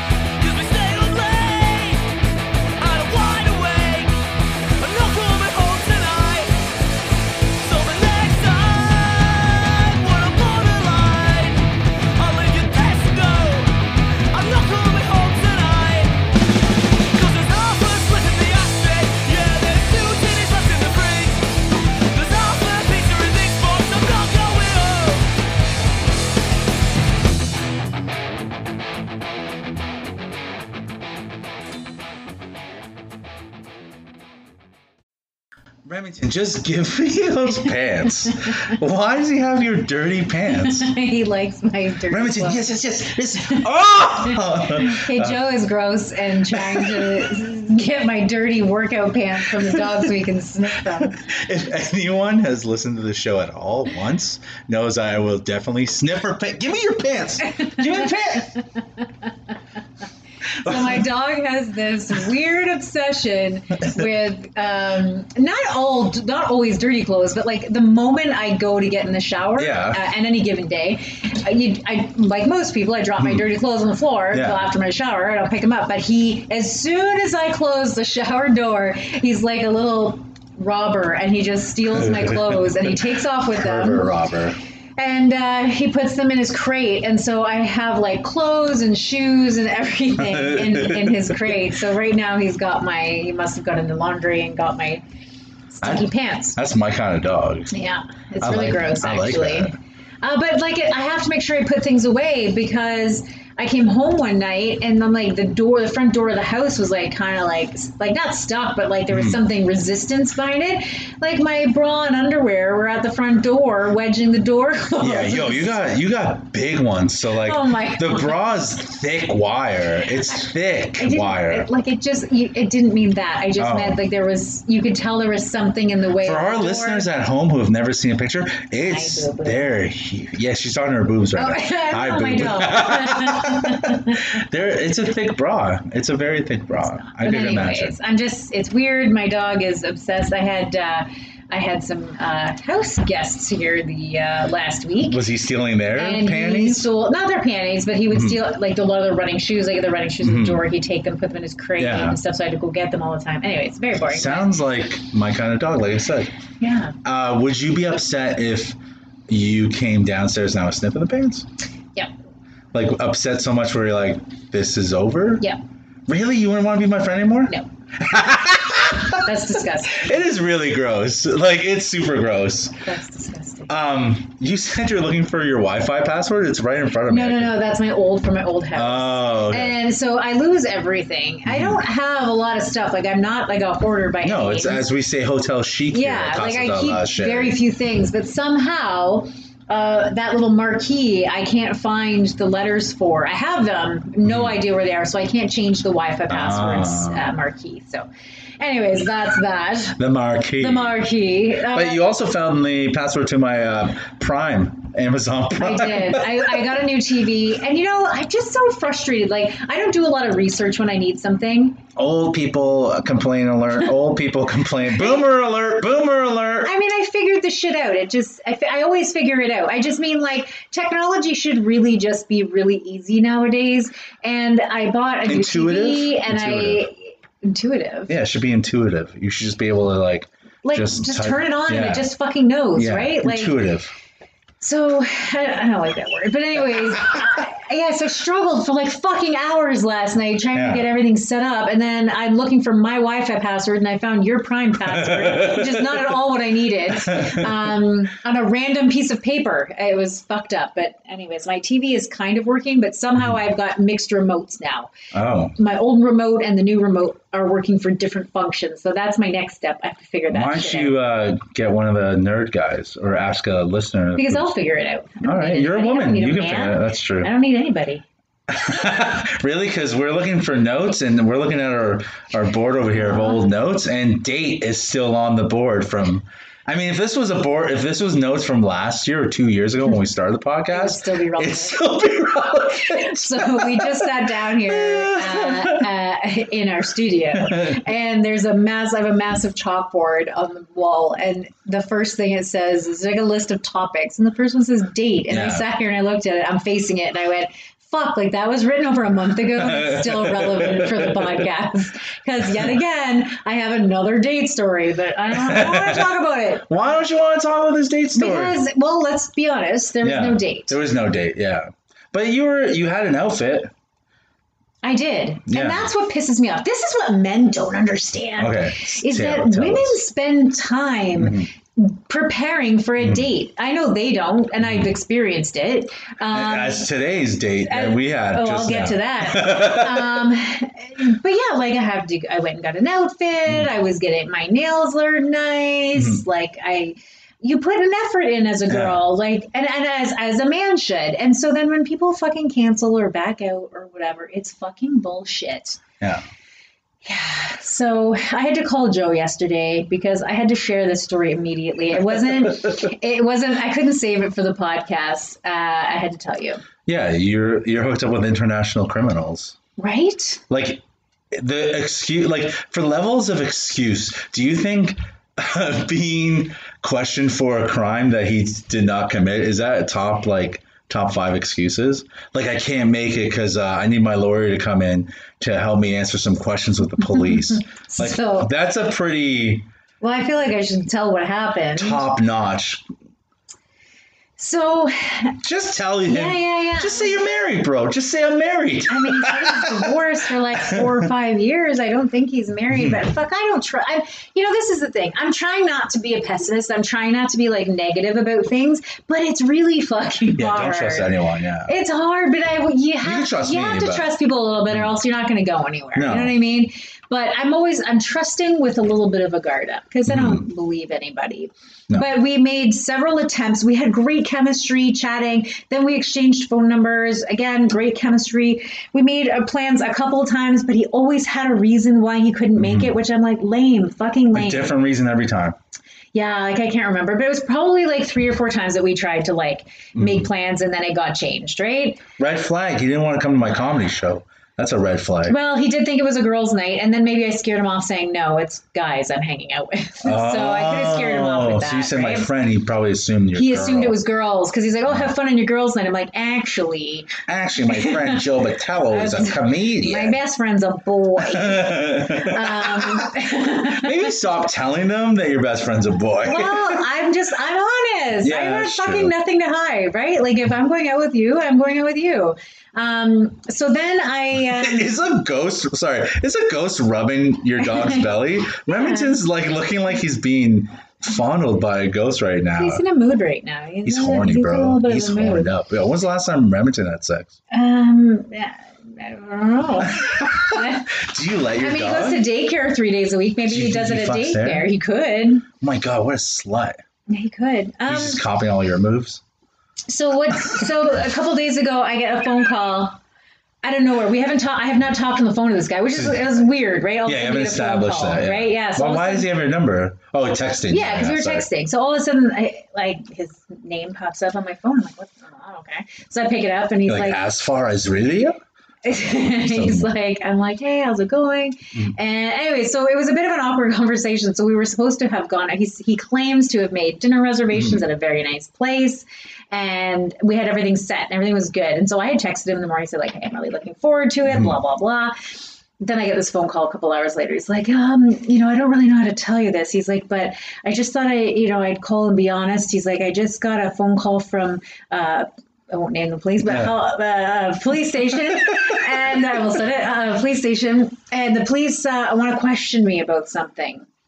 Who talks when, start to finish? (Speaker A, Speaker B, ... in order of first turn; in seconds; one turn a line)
Speaker A: 0.4-2.1
Speaker A: 2.8-6.7
Speaker A: 7.6-16.2
Speaker A: 17.1-25.3
Speaker B: 35.9-40.9
Speaker C: 40.5-42.7
Speaker B: 42.1-45.4
Speaker C: 44.6-51.2
Speaker B: 46.5-47.3
Speaker B: 49.6-50.0
Speaker B: 50.8-58.5
Speaker C: 57.7-58.0
Speaker C: 60.6-84.1
Speaker B: 60.6-61.1
Speaker B: 69.6-70.0
Speaker B: 74.3-74.6
Speaker B: 82.0-82.8
Speaker B: 83.5-84.6
Speaker C: 85.0-95.0
Speaker B: 90.2-91.5
Speaker C: 95.7-96.6
Speaker B: 95.8-97.7
Speaker C: 97.7-115.8
Speaker B: 98.4-99.8
Speaker B: 109.1-109.4
Speaker B: 115.0-121.7
Speaker C: 117.4-118.4
Speaker C: 121.0-127.1
Speaker B: 123.6-124.0
Speaker B: 126.2-137.9
Speaker C: 128.8-129.7
Speaker C: 131.3-134.2
Speaker C: 137.0-145.2
Speaker B: 145.0-146.9
Speaker C: 145.9-154.5
Speaker B: 148.1-148.4
Speaker B: 150.2-150.6
Speaker B: 151.8-152.2
Speaker B: 154.1-156.3
Speaker C: 156.6-156.9
Speaker B: 157.0-158.8
Speaker B: 159.3-161.4
Speaker B: 162.7-165.5
Speaker B: 166.1-169.3
Speaker C: 169.2-170.1
Speaker B: 169.9-172.8
Speaker C: 172.8-173.7
Speaker B: 173.7-177.6
Speaker C: 177.1-184.8
Speaker B: 178.7-179.8
Speaker B: 181.4-181.8
Speaker B: 184.2-187.6
Speaker C: 185.9-198.1
Speaker B: 194.2-194.6
Speaker B: 196.3-197.3
Speaker C: 198.6-200.0
Speaker B: 199.9-201.0
Speaker C: 200.6-202.1
Speaker B: 201.6-206.6
Speaker C: 205.6-211.8
Speaker B: 211.9-216.7
Speaker C: 216.6-228.1
Speaker B: 225.2-226.9
Speaker B: 228.1-232.1
Speaker C: 230.6-233.6
Speaker B: 232.8-233.9
Speaker C: 234.6-254.9
Speaker B: 240.5-240.9
Speaker B: 244.9-246.1
Speaker B: 247.0-247.5
Speaker B: 255.1-255.6
Speaker C: 255.6-260.9
Speaker B: 260.3-264.4
Speaker C: 264.1-268.0
Speaker B: 265.2-267.3
Speaker B: 268.5-285.9
Speaker C: 280.7-281.8
Speaker C: 282.8-306.9
Speaker B: 287.4-287.8
Speaker B: 295.3-295.6
Speaker B: 299.6-301.4
Speaker B: 305.3-308.6
Speaker C: 308.1-310.8
Speaker B: 310.0-313.7
Speaker C: 314.8-326.9
Speaker B: 315.5-315.9
Speaker B: 318.4-320.0
Speaker B: 321.1-321.5
Speaker B: 323.0-323.2
Speaker B: 324.6-324.9
Speaker B: 326.3-330.3
Speaker C: 327.6-345.8
Speaker B: 335.9-336.2
Speaker B: 338.7-339.0
Speaker B: 346.0-346.2
Speaker C: 347.0-356.6
Speaker B: 356.9-359.6
Speaker C: 359.8-360.4
Speaker B: 360.5-379.6
Speaker C: 377.5-378.5
Speaker C: 380.0-382.1
Speaker B: 381.8-382.8
Speaker C: 384.4-385.4
Speaker B: 385.4-389.9
Speaker C: 386.1-387.3
Speaker C: 388.9-401.1
Speaker B: 390.5-391.1
Speaker B: 392.7-393.0
Speaker B: 400.3-401.7
Speaker C: 401.6-424.7
Speaker B: 403.0-404.1
Speaker B: 405.9-406.3
Speaker B: 410.1-410.4
Speaker B: 422.6-422.9
Speaker B: 424.3-425.6
Speaker C: 426.1-432.0
Speaker B: 429.9-430.3
Speaker B: 432.2-435.4
Speaker C: 435.2-442.3
Speaker B: 440.0-444.0
Speaker C: 443.3-447.1
Speaker B: 447.3-450.2
Speaker C: 447.7-448.2
Speaker C: 448.9-454.0
Speaker B: 451.2-453.1
Speaker B: 453.7-456.8
Speaker C: 456.2-464.9
Speaker B: 458.2-459.1
Speaker B: 464.4-472.8
Speaker C: 467.6-469.1
Speaker C: 472.5-475.5
Speaker B: 473.8-477.4
Speaker C: 477.5-481.0
Speaker B: 480.0-482.2
Speaker C: 481.6-485.5
Speaker B: 483.4-484.7
Speaker B: 485.6-486.8
Speaker C: 487.1-488.2
Speaker B: 487.9-489.2
Speaker C: 489.9-493.0
Speaker C: 493.6-499.3
Speaker B: 495.9-496.2
Speaker B: 497.0-501.4
Speaker C: 500.7-507.2
Speaker B: 506.9-508.4
Speaker C: 508.8-525.1
Speaker B: 508.9-509.9
Speaker B: 517.5-517.8
Speaker B: 524.3-524.6
Speaker C: 525.8-543.9
Speaker B: 536.4-536.7
Speaker B: 538.4-538.8